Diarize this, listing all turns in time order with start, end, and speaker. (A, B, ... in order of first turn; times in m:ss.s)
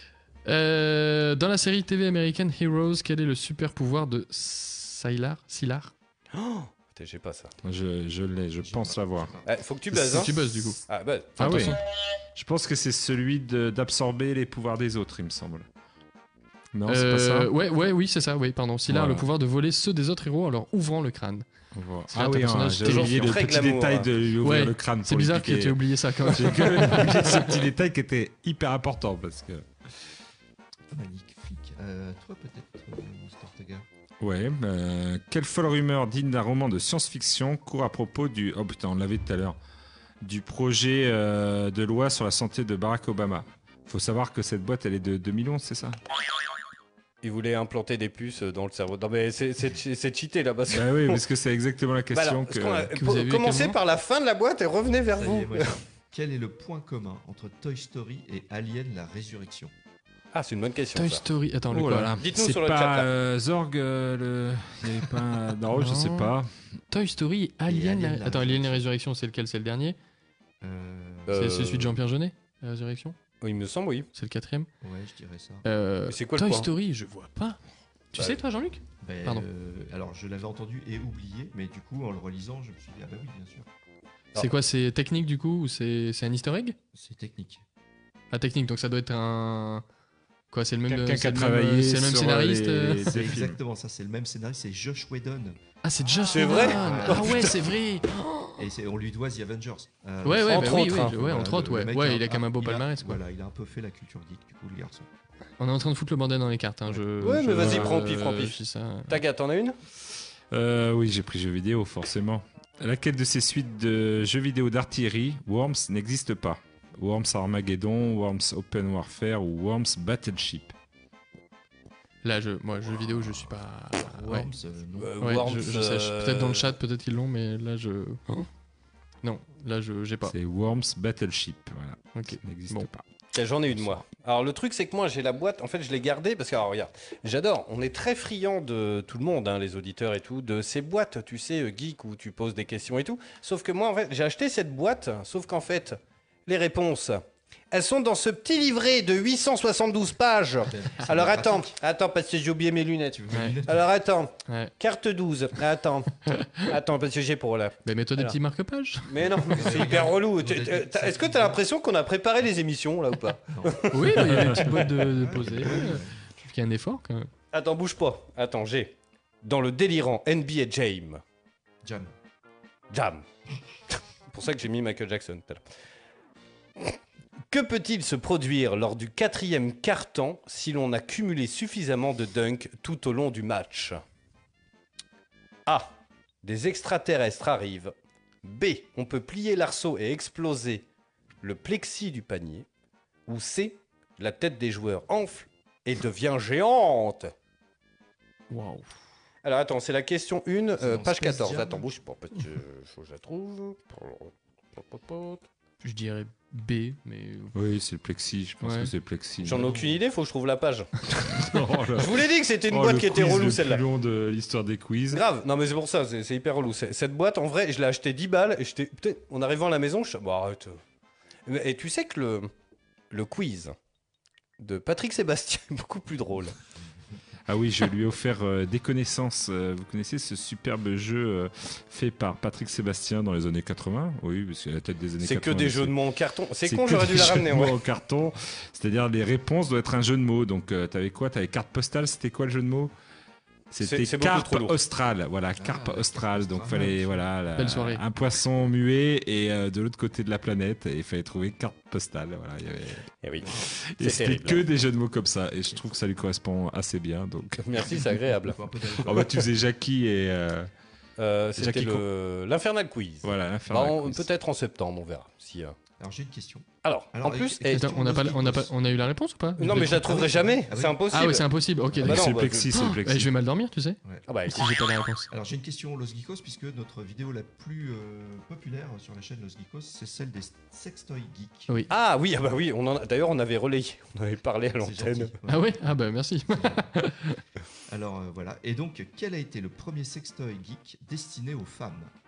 0:00.4-0:05.9 A
0:06.3-0:07.5 B
0:07.6-0:09.3 C
0:08.6-0:09.5 D
0:09.4-0:10.3 B
0:09.9-0:10.8 A
0:10.9-0:11.7 B
0:11.4-0:11.8 C
0:11.4-0:11.7 A
0:12.3-0:15.7 C
0:16.7-0:17.5 C
0:16.9-0:21.4 A
0:18.9-0:19.3 C
0:21.7-0:29.6 C
0:22.1-0:23.3 A
0:22.8-0:24.1 B
0:24.4-0:27.6 A
0:30.9-0:33.8 D
0:34.2-0:39.6 C
0:40.2-0:46.0 C
0:47.2-0:51.2 B
0:50.7-0:52.9 C
0:52.1-0:55.7 B
0:52.9-0:53.8 A
0:55.1-0:59.7 D
1:00.3-1:01.2 B
1:00.9-1:02.1 A
1:01.7-1:06.5 C
1:02.2-1:03.1 B
1:05.7-1:06.3 A
1:06.9-1:10.0 A
1:07.7-1:08.8 D
1:10.6-1:11.8 D
1:11.3-1:11.9 B
1:11.3-1:13.2 A
1:13.4-1:14.1 B
1:14.1-1:14.7 A
1:14.8-1:15.6 D
1:15.6-1:17.6 A
1:16.1-1:16.7 B
1:18.1-1:19.5 A
1:19.0-1:23.7 D
1:24.4-1:26.7 A
1:26.9-1:27.6 D
1:28.3-1:29.8 A
1:30.5-1:33.0 A
1:30.9-1:33.6 C
1:33.0-1:35.6 D
1:35.8-1:38.6 A
1:36.1-1:37.7 D
1:36.3-1:37.5 B
1:38.6-1:45.1 D
1:40.2-1:43.2 A
1:40.5-1:41.1 B
1:45.6-1:49.2 A
1:47.2-1:49.7 B
1:50.5-2:00.7 C
2:02.2-2:04.5 A
2:03.1-2:05.4 D
2:05.0-2:06.8 B
2:05.2-2:08.5 A
2:09.2-2:10.3 A
2:10.2-2:13.0 C
2:12.1-2:12.9 A
2:13.3-2:38.3 B
2:13.7-2:14.0 C
2:30.6-2:31.7 D
2:33.1-2:33.8 D
2:33.3-2:33.6 A
2:34.5-2:34.7 A
2:36.3-2:36.7 A
2:37.8-2:39.0 A
2:39.1-2:44.9 B
2:39.5-2:41.6 D
2:43.5-2:46.1 D
2:43.9-2:47.3 A
2:47.5-2:51.2 B
2:51.8-2:52.1 D
2:52.9-2:53.2 B
2:53.9-2:55.6 B
2:57.5-3:04.0 B
3:05.7-3:05.9 B
3:06.4-3:10.8 B
3:11.4-3:12.6 B
3:13.3-3:17.3 B
3:18.5-3:18.9 A
3:19.4-3:25.4 B
3:20.8-3:21.9 D
3:25.8-3:27.5 A
3:27.5-3:29.7 C
3:28.6-3:28.9 A
3:29.4-3:30.0 D
3:29.4-3:31.3 B
3:31.3-3:35.2 C
3:31.9-3:33.8 B
3:35.1-3:40.8 B
3:41.5-3:42.5 B
3:43.1-3:43.7 B
3:44.6-3:46.5 B
3:47.5-3:55.9 C
3:55.2-3:57.8 B
3:56.6-4:02.9 C
4:03.7-4:13.1 C
4:03.8-4:04.7 B
4:05.6-4:07.2 D
4:07.6-4:08.0 A
4:13.2-4:14.6 B
4:13.4-4:13.7 D
4:13.6-4:18.0 C
4:17.6-4:18.6 B
4:17.8-4:19.5 D
4:18.9-4:20.7 C
4:21.2-4:25.8 B
4:21.6-4:22.0 C
4:23.2-4:24.2 C
4:26.0-4:28.7 D
4:26.8-4:27.9 B
4:27.7-4:30.0 A
4:29.6-4:31.4 B
4:29.6-4:31.4 D
4:31.1-4:34.0 A
4:32.0-4:33.3 C
4:32.0-4:32.7 B
4:34.3-4:34.6 B
4:34.5-4:35.3 A
4:35.3-4:41.7 D
4:41.9-4:45.3 B
4:44.8-4:45.7 D
4:45.4-4:47.4 A
4:46.5-4:47.1 D
4:47.9-4:52.1 D